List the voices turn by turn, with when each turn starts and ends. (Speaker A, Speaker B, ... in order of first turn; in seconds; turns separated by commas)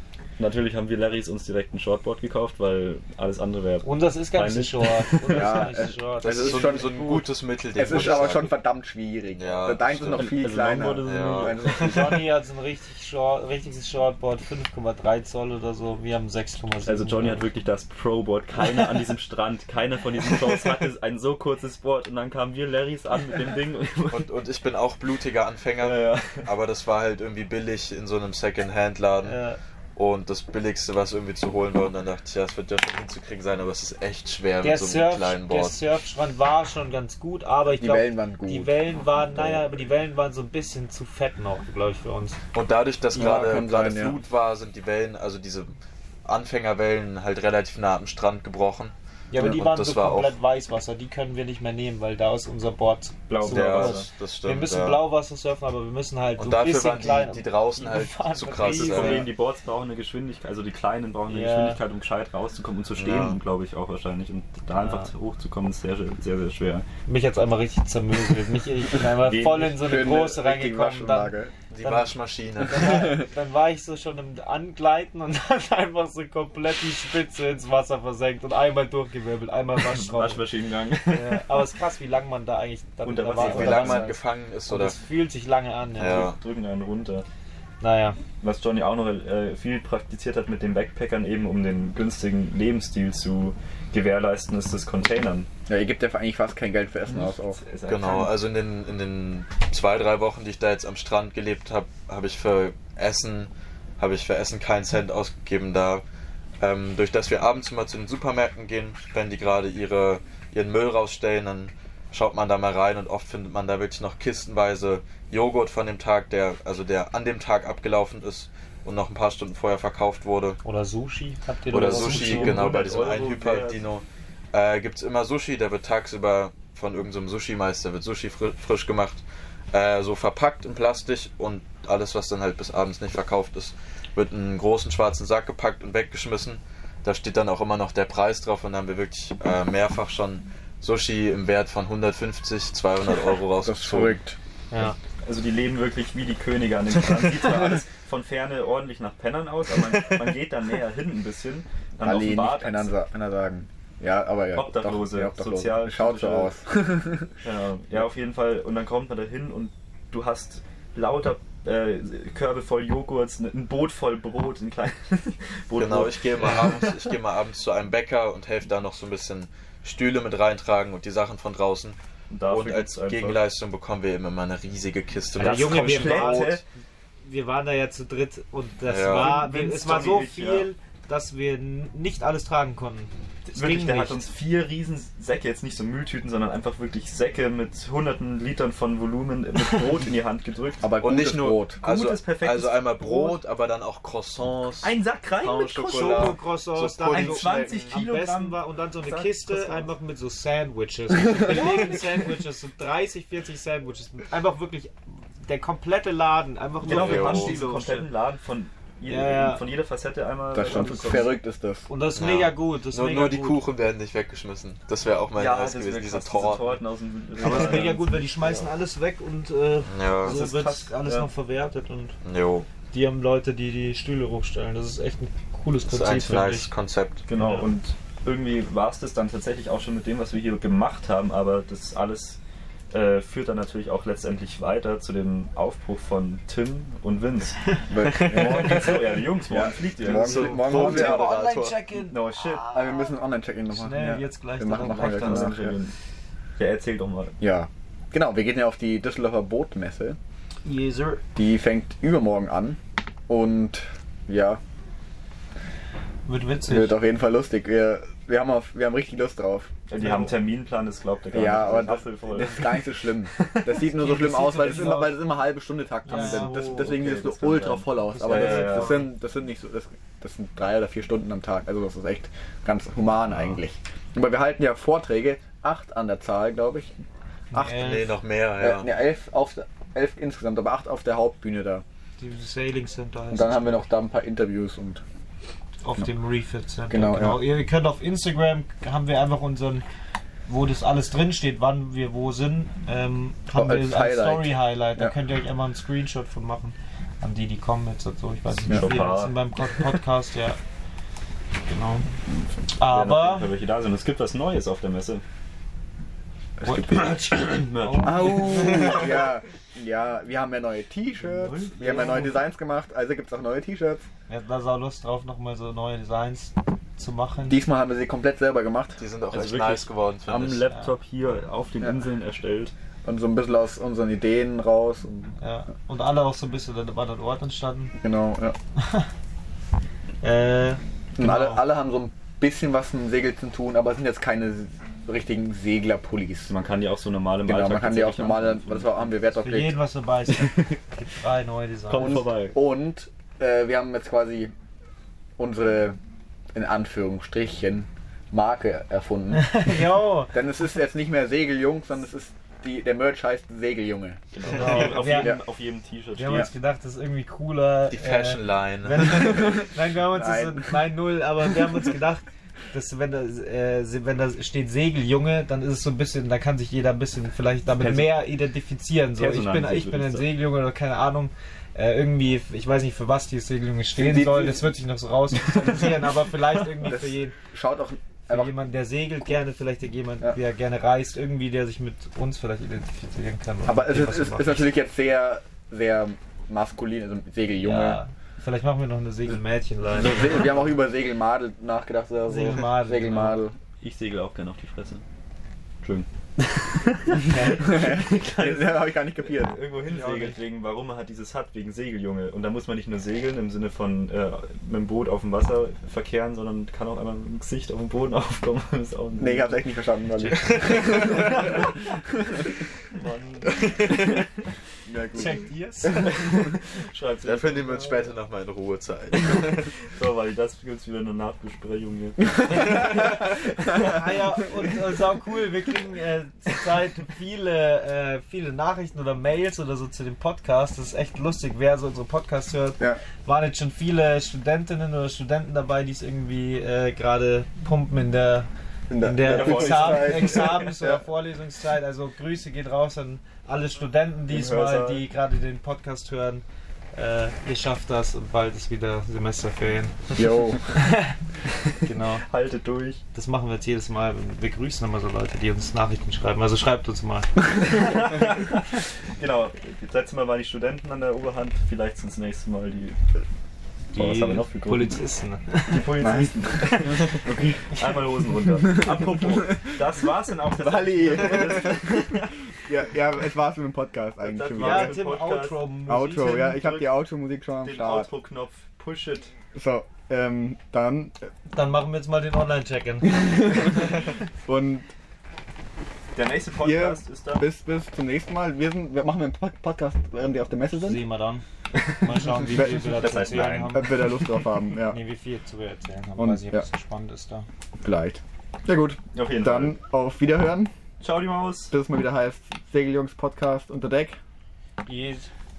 Speaker A: 0.4-5.7, Speaker B: 3.8-7.2, Speaker C: 5.3-12.2, Speaker D: 6.2-8.5, Speaker D: 9.3-10.5, Speaker A: 10.1-12.2, Speaker D: 11.0-11.6, Speaker B: 11.7-17.4, Speaker A: 16.8-24.3, Speaker D: 24.1-29.4, Speaker A: 25.8-26.5, Speaker B: 29.2-29.6, Speaker D: 29.9-35.8, Speaker B: 34.6-42.4, Speaker C: 37.7-38.7, Speaker D: 42.5-50.3, Speaker C: 43.1-44.2, Speaker B: 49.3-59.3, Speaker A: 53.3-54.1, Speaker D: 53.5-55.0, Speaker D: 56.4-59.3, Speaker A: 58.6-66.9, Speaker B: 61.3-61.8, Speaker D: 63.0-63.4, Speaker B: 64.8-65.1, Speaker B: 67.1-72.1, Speaker A: 69.2-69.9, Speaker C: 69.8-71.5, Speaker D: 71.7-73.2, Speaker B: 72.6-80.4, Speaker C: 72.8-73.2, Speaker A: 80.0-81.4, Speaker B: 81.1-86.3, Speaker A: 83.0-84.1, Speaker D: 83.4-85.0, Speaker D: 86.0-86.4, Speaker A: 86.2-87.2, Speaker B: 87.8-88.2, Speaker A: 88.4-95.5, Speaker C: 95.7-97.6, Speaker A: 97.1-98.3, Speaker D: 97.9-106.0, Speaker D: 106.6-120.6, Speaker B: 120.6-122.6, Speaker D: 121.7-144.2, Speaker A: 121.7-123.8, Speaker C: 143.6-144.4, Speaker A: 145.2-152.9, Speaker C: 152.0-157.3, Speaker A: 154.5-156.6, Speaker A: 157.4-167.1, Speaker D: 165.8-172.0, Speaker A: 172.3-173.4, Speaker D: 172.5-176.6, Speaker A: 175.3-176.6, Speaker B: 175.4-176.6, Speaker B: 177.2-184.2, Speaker D: 178.8-179.4, Speaker A: 179.1-180.7, Speaker A: 183.5-190.9, Speaker C: 190.8-191.8, Speaker D: 191.0-198.0, Speaker A: 191.8-193.4, Speaker A: 194.8-196.4, Speaker B: 195.9-208.1, Speaker A: 197.1-199.9, Speaker A: 201.4-202.2, Speaker A: 206.8-211.4, Speaker D: 206.9-207.6, Speaker B: 209.0-209.6, Speaker C: 210.5-211.9, Speaker B: 211.9-213.6, Speaker D: 212.1-216.8, Speaker A: 215.3-218.7, Speaker B: 217.4-222.2, Speaker D: 217.4-217.8, Speaker D: 219.9-220.4, Speaker A: 220.2-221.3, Speaker D: 222.2-222.7, Speaker B: 222.9-226.7, Speaker D: 225.9-227.2, Speaker A: 227.3-232.4, Speaker B: 227.4-227.7, Speaker A: 232.9-237.6, Speaker C: 237.9-241.2, Speaker B: 238.0-238.6, Speaker A: 238.1-241.0, Speaker D: 240.0-241.8, Speaker B: 240.5-243.2, Speaker A: 242.1-242.6, Speaker C: 242.7-245.8, Speaker B: 243.7-245.6, Speaker A: 244.8-245.9, Speaker A: 246.6-247.3, Speaker C: 247.4-250.2, Speaker B: 250.6-251.2, Speaker C: 251.3-254.6, Speaker B: 256.2-257.0, Speaker C: 256.7-259.7, Speaker A: 259.9-262.9, Speaker B: 259.9-260.4, Speaker C: 261.3-277.0, Speaker A: 263.4-263.7, Speaker B: 263.8-265.2, Speaker B: 266.1-266.8, Speaker A: 266.1-269.0, Speaker B: 268.1-269.1, Speaker B: 277.5-278.2, Speaker C: 277.5-277.9, Speaker D: 277.6-278.9, Speaker C: 278.6-281.8, Speaker B: 282.2-283.8, Speaker C: 283.3-285.0, Speaker B: 285.8-289.8, Speaker C: 286.9-287.4, Speaker B: 290.5-300.6, Speaker C: 293.5-295.1, Speaker A: 298.5-299.4, Speaker B: 301.7-302.1, Speaker B: 302.7-303.5, Speaker A: 302.8-305.2, Speaker A: 306.6-309.2, Speaker C: 306.6-307.1, Speaker B: 306.6-307.1, Speaker B: 307.7-309.0, Speaker C: 308.0-314.1, Speaker A: 311.2-312.2, Speaker B: 311.7-312.3, Speaker B: 314.3-317.6, Speaker C: 317.5-319.0, Speaker D: 319.0-320.6, Speaker A: 319.3-322.7, Speaker C: 323.0-325.3, Speaker B: 325.4-327.9, Speaker C: 328.0-328.5, Speaker B: 328.8-329.1, Speaker B: 330.2-331.6, Speaker C: 331.1-336.5, Speaker A: 336.5-339.1, Speaker C: 337.5-339.7, Speaker B: 339.3-342.2, Speaker A: 340.4-340.7, Speaker A: 341.9-342.6, Speaker C: 341.9-344.5, Speaker C: 345.4-346.0, Speaker C: 346.5-349.7, Speaker B: 349.4-350.3, Speaker C: 350.3-355.4, Speaker A: 354.3-356.5, Speaker B: 354.4-355.4, Speaker B: 356.1-377.3, Speaker D: 357.9-359.4, Speaker C: 359.1-360.8, Speaker A: 367.7-368.3, Speaker A: 369.1-370.3, Speaker C: 373.9-374.7, Speaker A: 375.6-376.0, Speaker C: 376.8-378.5, Speaker B: 378.3-384.6, Speaker C: 383.7-388.0, Speaker B: 387.6-390.6, Speaker C: 389.9-393.6, Speaker B: 392.2-393.4, Speaker A: 393.8-395.0, Speaker A: 395.8-409.6, Speaker B: 397.2-397.7, Speaker C: 397.6-399.6, Speaker B: 399.9-400.4, Speaker C: 409.2-411.4, Speaker A: 410.9-411.7, Speaker D: 411.0-411.4, Speaker A: 412.9-414.2, Speaker D: 413.6-414.2, Speaker C: 414.9-416.1, Speaker B: 415.1-416.4, Speaker A: 415.9-417.9, Speaker D: 417.2-419.7, Speaker A: 419.9-424.0, Speaker B: 423.7-438.5, Speaker C: 438.9-441.0, Speaker B: 439.0-450.2, Speaker A: 439.2-440.5, Speaker A: 444.3-445.0, Speaker C: 450.1-450.6, Speaker B: 450.7-451.1, Speaker A: 451.6-453.0, Speaker B: 451.8-452.2, Speaker B: 453.1-457.3, Speaker A: 457.6-463.0, Speaker A: 463.9-465.0, Speaker B: 463.9-465.9, Speaker A: 465.7-472.3, Speaker C: 466.0-467.5, Speaker C: 468.7-469.5, Speaker C: 470.5-475.0, Speaker A: 474.2-475.6, Speaker B: 474.6-476.6, Speaker C: 475.9-478.1, Speaker A: 476.4-476.9, Speaker A: 477.6-479.3, Speaker C: 479.5-481.2, Speaker B: 481.5-483.9, Speaker C: 483.1-484.9, Speaker A: 486.1-487.4, Speaker C: 486.6-491.0, Speaker B: 490.8-491.4, Speaker A: 491.8-494.4, Speaker B: 492.0-494.0, Speaker C: 492.6-492.9, Speaker C: 493.6-495.0, Speaker B: 494.8-497.5, Speaker C: 496.2-496.6, Speaker C: 497.8-500.7, Speaker A: 499.1-499.8, Speaker A: 501.0-501.7, Speaker C: 501.7-504.2, Speaker B: 504.8-505.3